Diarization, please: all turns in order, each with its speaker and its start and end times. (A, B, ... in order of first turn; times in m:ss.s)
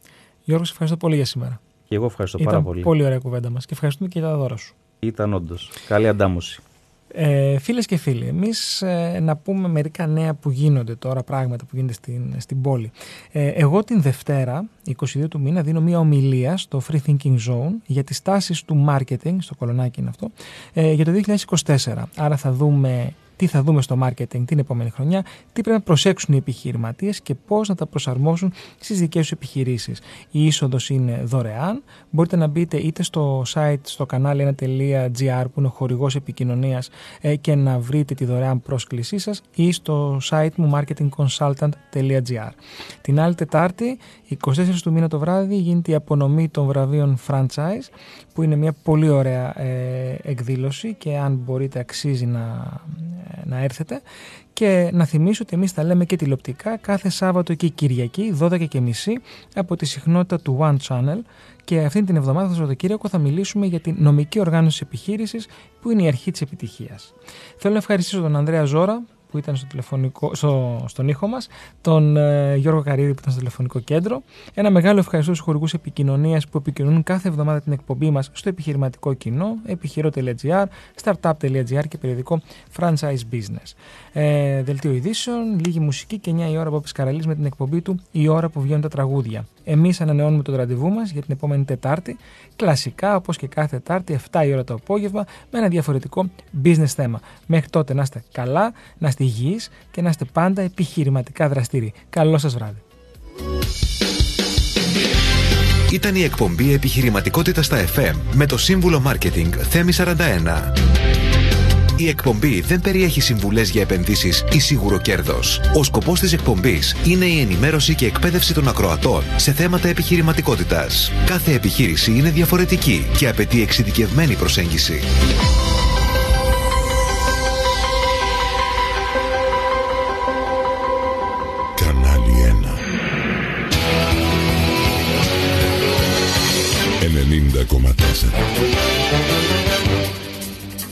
0:00.5-0:01.6 A
0:01.9-0:02.9 B
0:02.4-0:04.8 A
0:05.0-0:06.6 B
0:07.1-0:54.0 A
0:54.6-1:42.8 A
1:45.9-1:50.8 C
1:52.0-2:05.1 C
2:11.8-2:12.8 D
2:17.0-2:18.5 D